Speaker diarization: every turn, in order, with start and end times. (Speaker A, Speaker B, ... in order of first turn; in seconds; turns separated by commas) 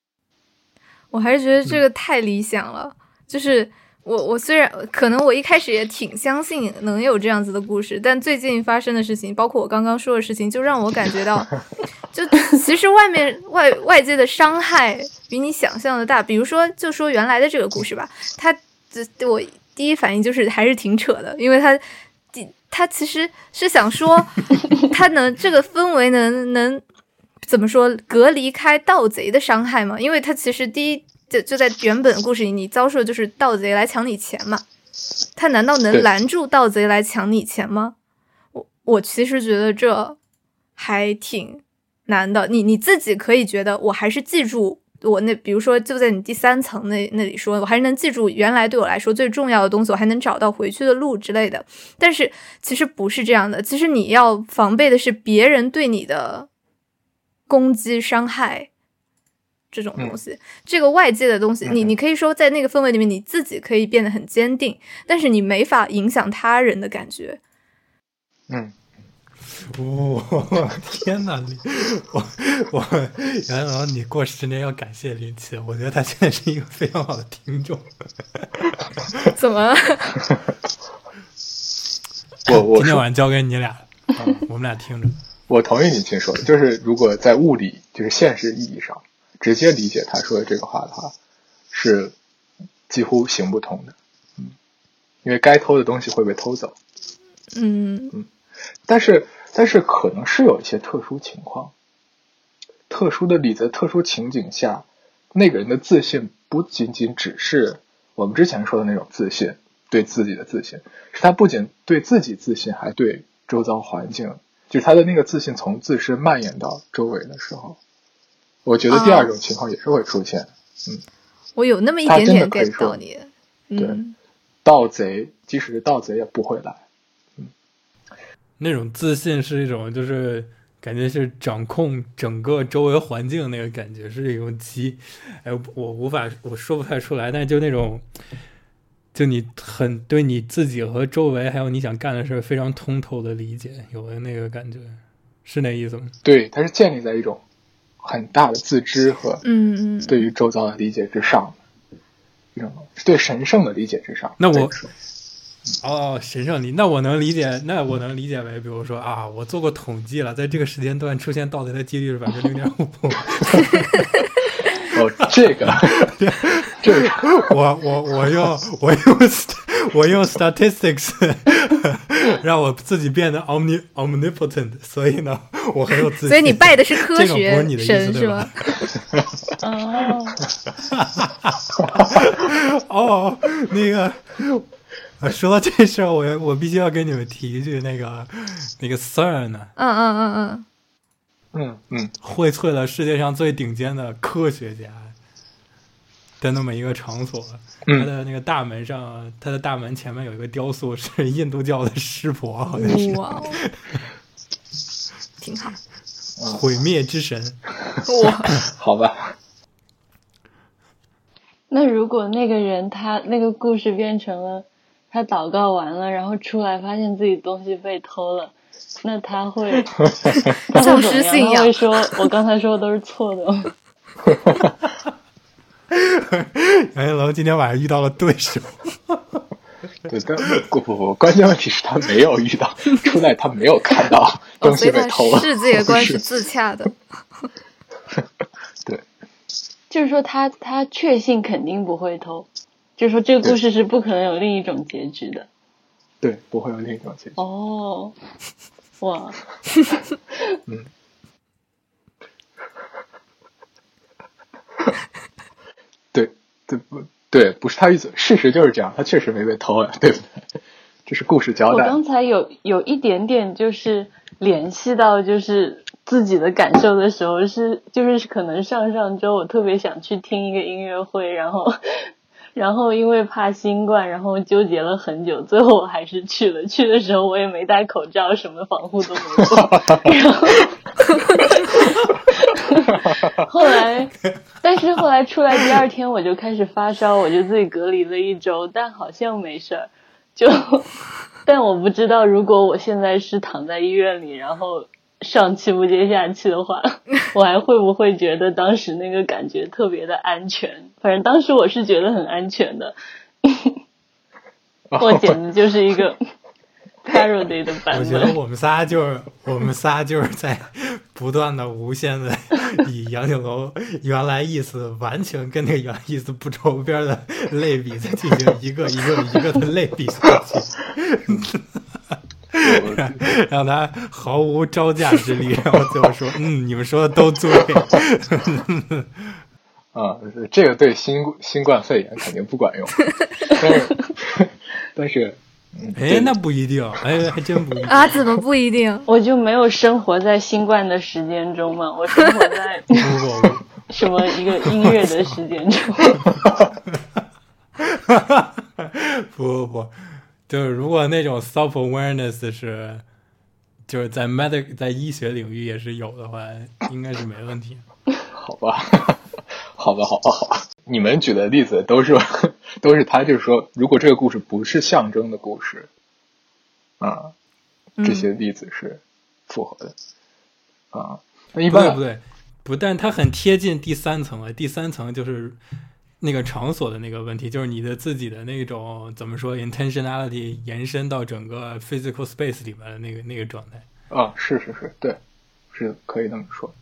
Speaker A: 1.1-26.8, Speaker A: 27.4-34.6, Speaker A: 35.4-38.0, Speaker A: 38.5-40.2, Speaker A: 40.8-56.5, Speaker A: 57.5-58.7, Speaker A: 59.7-67.4, Speaker B: 61.6-61.9, Speaker C: 69.6-79.2, Speaker A: 79.3-80.4, Speaker C: 82.5-85.2, Speaker B: 82.5-83.0, Speaker B: 84.2-84.4, Speaker B: 85.5-91.1, Speaker B: 91.7-92.1, Speaker B: 92.9-94.5, Speaker B: 95.2-96.8, Speaker A: 97.5-98.2, Speaker B: 98.9-101.7, Speaker B: 102.9-117.8, Speaker B: 118.7-121.0, Speaker A: 118.9-119.3, Speaker A: 121.6-124.2, Speaker B: 122.1-123.0, Speaker B: 124.7-126.8, Speaker C: 128.6-138.1, Speaker C: 139.1-146.2, Speaker B: 146.2-147.4, Speaker B: 148.0-149.4, Speaker A: 149.4-150.3, Speaker B: 150.1-151.6, Speaker B: 152.6-154.9, Speaker C: 154.4-154.8, Speaker C: 155.8-164.3, Speaker B: 164.9-166.1, Speaker C: 165.6-178.8, Speaker B: 166.8-167.3, Speaker A: 176.3-178.8, Speaker D: 179.6-180.4, Speaker C: 180.9-184.7, Speaker C: 185.2-189.7, Speaker A: 189.8-190.7, Speaker B: 191.5-192.1, Speaker C: 192.2-195.2, Speaker C: 196.4-204.0, Speaker A: 202.8-203.6, Speaker A: 205.4-205.8, Speaker C: 206.5-207.6, Speaker A: 208.1-208.6, Speaker B: 208.6-209.3, Speaker D: 211.7-223.7, Speaker B: 220.2-220.6, Speaker A: 220.7-221.8, Speaker C: 225.9-229.4, Speaker B: 230.1-236.2, Speaker A: 234.6-237.0, Speaker D: 239.9-245.5, Speaker B: 246.2-247.4, Speaker D: 247.4-248.2, Speaker D: 249.0-249.4, Speaker B: 256.1-260.4, Speaker B: 261.1-262.0, Speaker D: 261.7-280.8, Speaker B: 279.7-280.0, Speaker D: 281.3-303.8, Speaker B: 283.1-283.4, Speaker B: 304.9-305.4, Speaker D: 305.0-306.2, Speaker D: 307.0-308.4, Speaker C: 307.9-329.4, Speaker B: 322.6-323.2, Speaker B: 329.9-336.3, Speaker C: 335.9-338.4, Speaker A: 337.9-339.1, Speaker D: 339.1-343.1, Speaker C: 342.9-343.7, Speaker D: 343.9-346.3, Speaker C: 344.6-345.3, Speaker C: 346.9-347.2, Speaker C: 347.8-350.0, Speaker C: 350.5-353.0, Speaker C: 353.9-357.9, Speaker B: 358.4-359.2, Speaker B: 359.8-365.9, Speaker B: 367.0-367.3, Speaker A: 368.0-368.3, Speaker B: 368.0-369.9, Speaker B: 370.9-372.0, Speaker C: 371.7-375.6, Speaker C: 376.2-383.9, Speaker B: 384.1-385.2, Speaker B: 385.7-386.7